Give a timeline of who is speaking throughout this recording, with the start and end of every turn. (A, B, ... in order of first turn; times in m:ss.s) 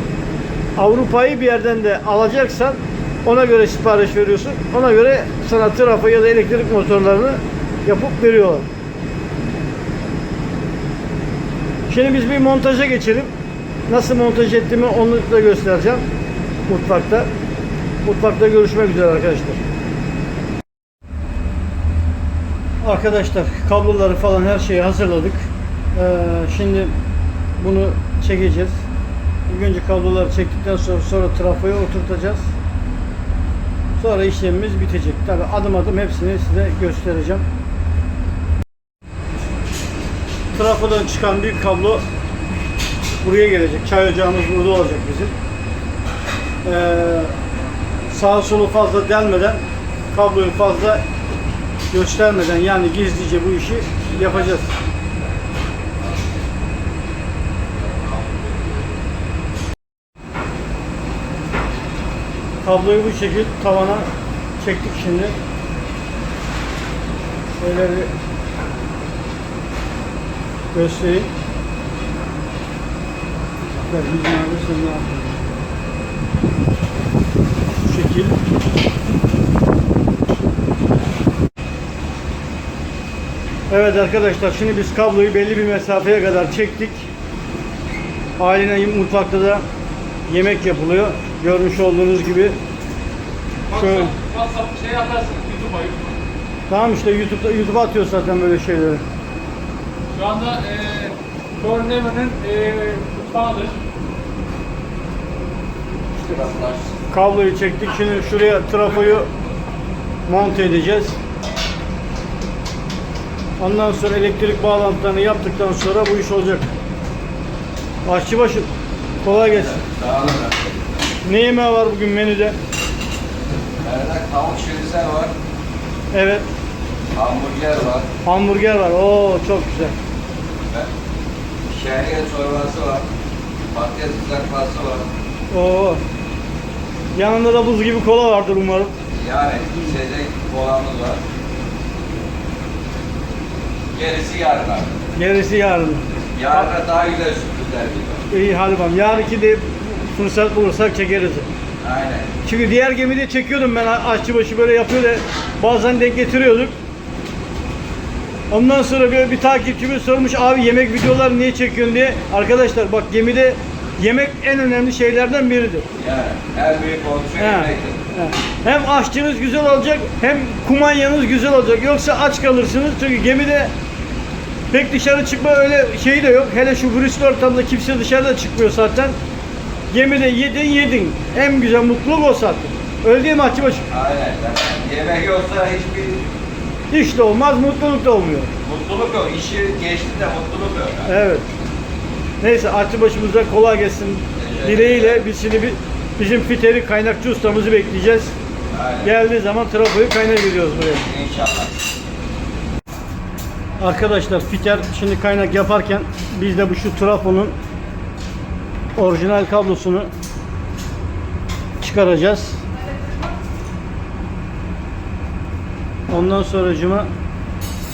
0:00.8-0:08.7 A
0:11.9-0:13.3 A
0:13.9-0:16.1 A
0:16.7-0:17.3 A
0:18.0-0:19.6 A
0:22.8-0:26.9 A
0:27.6-0:28.8 A
0:29.5-0:32.5 A
0:34.0-0:37.5 A
0:40.5-0:42.0 A
0:43.2-0:45.3 A
0:46.6-0:47.3 A
0:48.1-0:51.0 A
0:51.9-0:54.7 A
1:02.6-1:04.1 A
1:04.6-1:05.4 A
1:07.6-1:08.1 A
1:10.7-1:11.3 A
1:13.8-1:15.4 A
1:17.8-1:18.4 A
1:23.7-1:27.1 A
1:28.4-1:29.6 A
1:30.3-1:32.6 A
1:33.7-1:34.1 A
1:33.7-1:36.2 B
1:36.7-1:39.0 A
1:40.1-1:43.8 B
1:46.2-1:46.9 C
1:47.1-1:49.3 A
1:50.3-1:51.2 A
1:53.6-1:56.7 A
1:58.1-1:58.7 A
1:59.2-1:59.8 A
1:59.3-2:01.0 C
2:01.2-2:02.6 A
2:03.8-2:05.3 C
2:06.1-2:06.5 A
2:07.1-2:08.1 C
2:08.2-2:10.0 A
2:11.7-2:13.1 C
2:13.7-2:15.1 C
2:15.5-2:16.0 A
2:17.2-2:19.0 A
2:19.2-2:21.2 C
2:23.9-2:25.0 C
2:25.2-2:26.7 A
2:26.4-2:28.2 C
2:28.3-2:31.5 A
2:31.8-2:32.3 C
2:32.4-2:36.8 A
2:38.5-2:45.9 A
2:46.0-2:48.0 C
2:47.4-2:53.7 A
2:54.7-2:59.2 A
2:59.9-3:03.8 A
3:03.9-3:06.3 C
3:06.9-3:08.5 A
3:08.6-3:11.1 C
3:11.1-3:11.5 A
3:12.4-3:18.4 A
3:14.4-3:15.3 C
3:18.7-3:19.1 C
3:19.0-3:21.1 A
3:21.1-3:21.7 C
3:23.8-3:27.6 A
3:29.0-3:30.1 A
3:31.8-3:32.6 A
3:36.1-3:37.1 A